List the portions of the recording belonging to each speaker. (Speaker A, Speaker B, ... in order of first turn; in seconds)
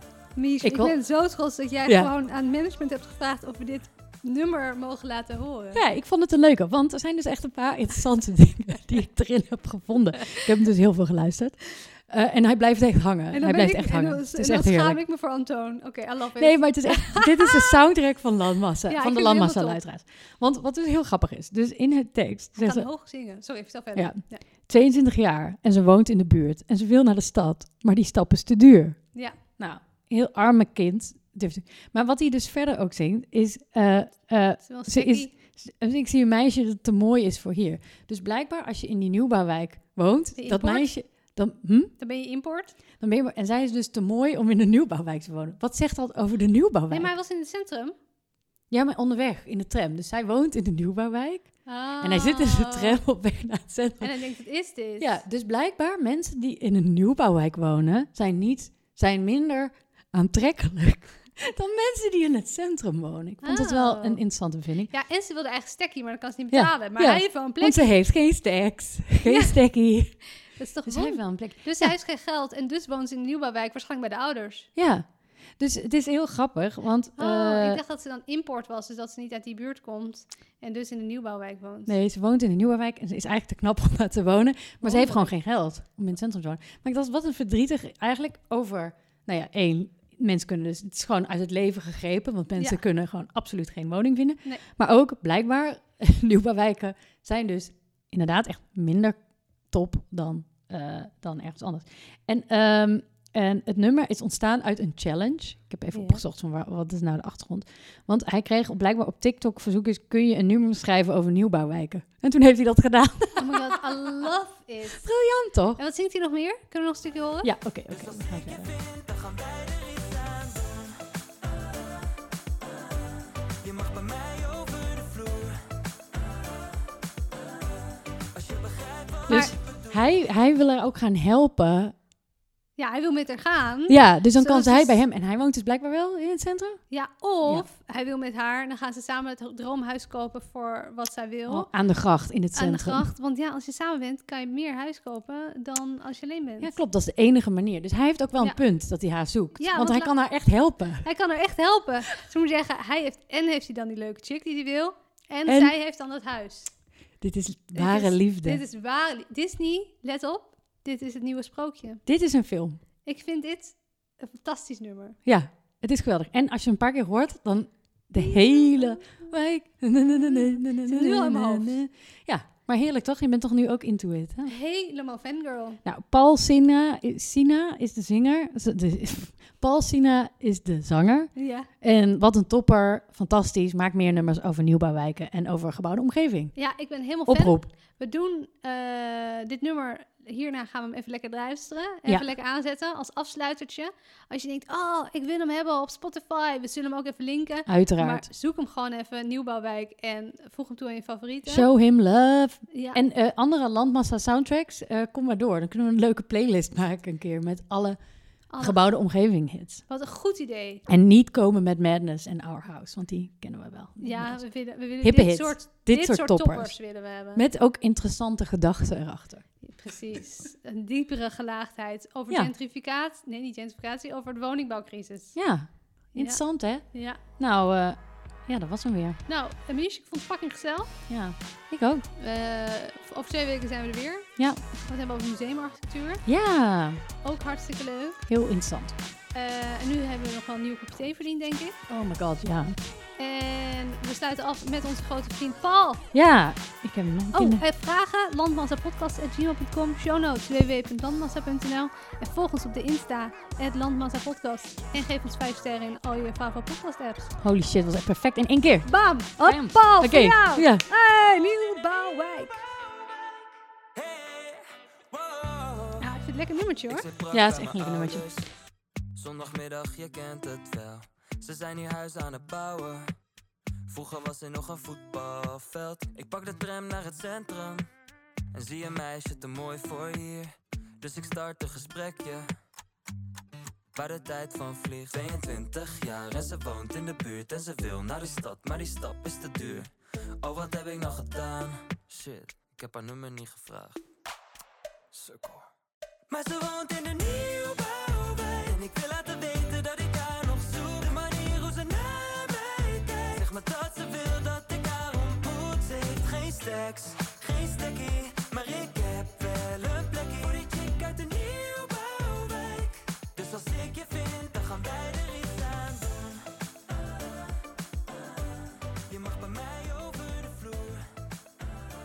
Speaker A: 0.4-5.8, 13.3-17.7, 18.9-19.8, 22.6-24.4, 34.6-35.3, 40.4-40.9, 42.0-42.8, 46.9-47.9, 51.7-53.0, 54.0-55.2, 63.4-64.2, 64.9-67.9, 69.2-69.6, 70.4-74.7, 77.2-82.0, 84.8-85.3, 105.9-106.2, 113.4-115.0, 115.8-117.5, 129.3-129.5, 132.8-135.0, 136.9-141.7, 142.5-146.7, 149.6-150.1, 151.0-156.7, 157.8-162.0, 163.0-165.2, 168.2-169.1, 170.1-171.8, 174.5-175.8, 181.4-181.7, 186.6-201.7, 202.7-203.0, 208.5-208.8, 209.9-210.8, 214.0-217.4, 219.6-225.4, 226.1-227.2, 229.3-231.0, 232.2-236.2, 237.2-238.2, 239.3-241.8, 243.2-246.1, 247.3-257.4, 258.9-262.7, 266.0-267.1
Speaker B: 0.6-1.0, 5.7-15.0, 16.4-22.9, 23.9-41.9, 43.0-47.1, 48.7-54.1, 55.0-64.9, 66.5-70.2, 70.9-71.9, 74.8-77.8, 81.9-114.3, 114.9-115.8, 117.4-118.7, 129.3-131.9, 133.9-136.8, 141.5-143.1, 146.6-151.1, 155.5-155.7, 157.2-158.6, 162.1-162.8, 165.2-174.5, 175.8-186.6, 187.3-187.7, 197.7-198.3, 201.4-208.0, 208.6-209.8, 210.9-219.5, 225.3-229.2, 231.1-232.0, 236.2-237.0, 238.3-239.0, 241.9-242.8, 246.1-247.6, 257.4-260.9, 267.3-268.2
Speaker C: 117.9-121.0, 123.6-125.8, 128.3-130.0, 263.9-266.0, 266.9-268.5, 269.1-273.1, 273.9-277.9, 278.5-282.5, 283.9-289.9, 290.4-294.0, 295.1-295.6, 296.3-316.5, 319.0-321.1